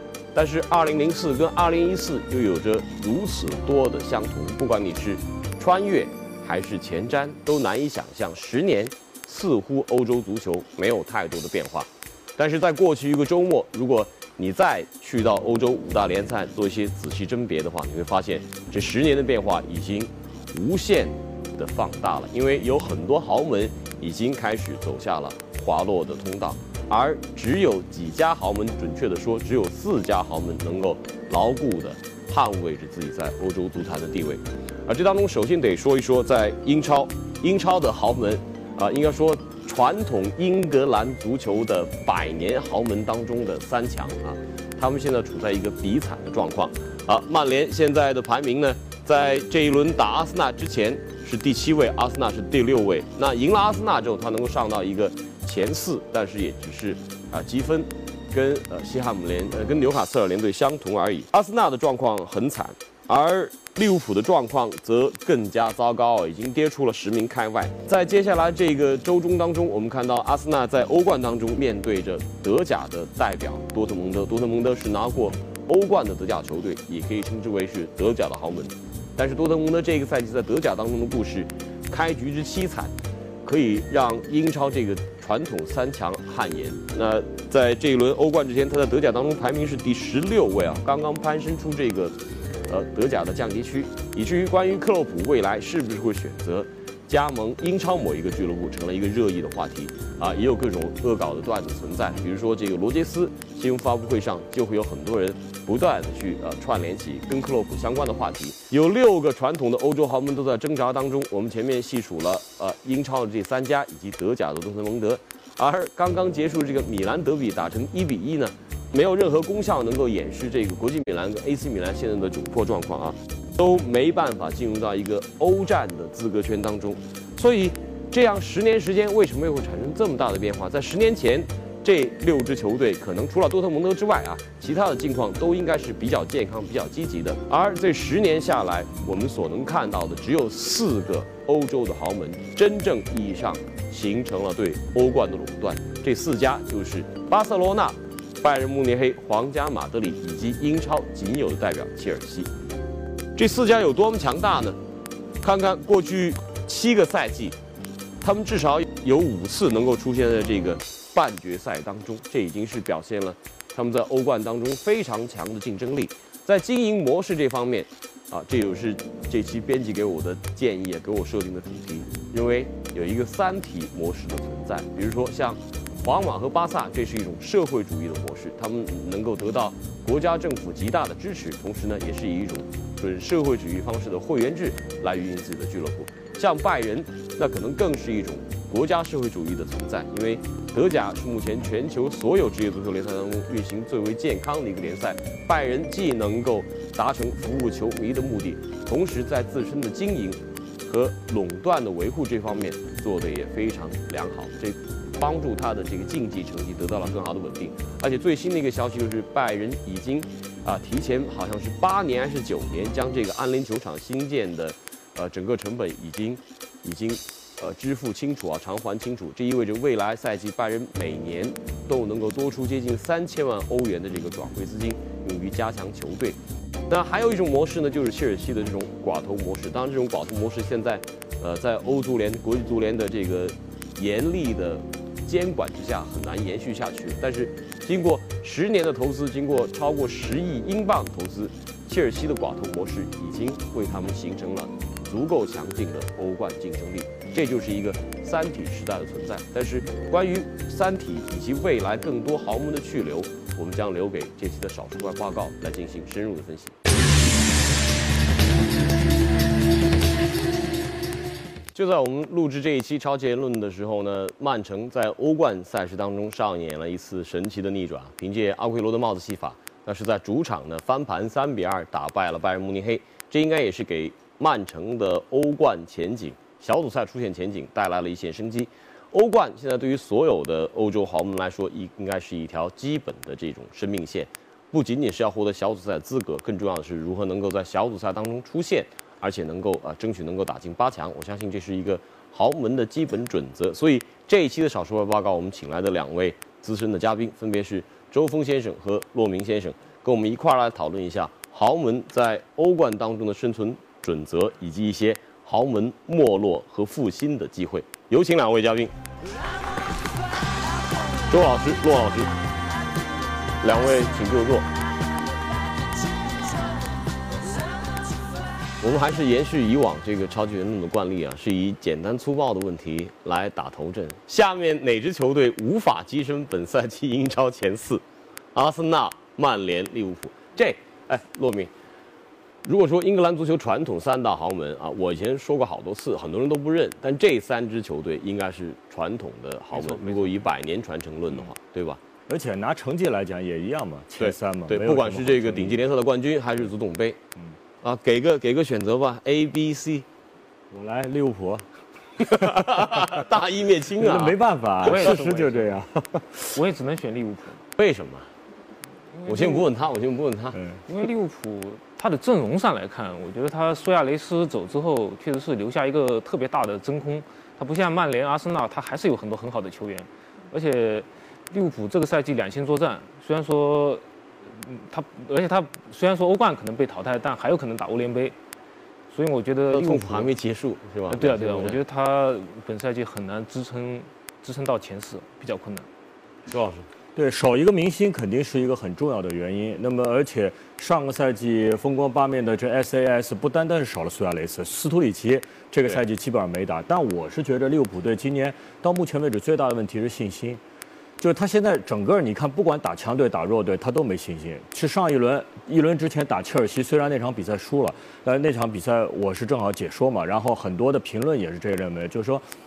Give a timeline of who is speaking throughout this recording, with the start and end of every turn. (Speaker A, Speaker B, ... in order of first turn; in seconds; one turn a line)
Speaker A: 0.3-82.9
Speaker A: 83.4-92.1
Speaker A: 92.7-152.5
Speaker A: 153.3-154.8
Speaker A: 155.4-157.6
Speaker A: 158.2-226.4
Speaker A: 226.9-256.8
Speaker A: 261.7-308.9
Speaker A: 311.3-312.3
Speaker A: 313.6-314.7
Speaker A: 318.8-328.0
Speaker A: 328.5-331.7
Speaker A: 332.6-342.0
Speaker B: 339.8-340.4
Speaker C: 342.3-345.8
Speaker A: 344.2-347.2
Speaker A: 347.8-350.1
Speaker C: 350.7-351.7
Speaker C: 352.2-353.2
Speaker A: 352.2-354.4
Speaker C: 354.0-356.5
Speaker B: 354.8-355.9
Speaker B: 356.5-357.6
Speaker A: 357.8-358.3
Speaker B: 359.1-359.7
Speaker A: 359.2-360.6
Speaker C: 360.6-360.8
Speaker B: 360.9-378.4
Speaker B: 379.1-380.3
Speaker A: 379.7-381.8
Speaker B: 381.1-385.9
Speaker A: 386.5-386.9
Speaker C: 387.1-400.6
Speaker C: 401.2-412.4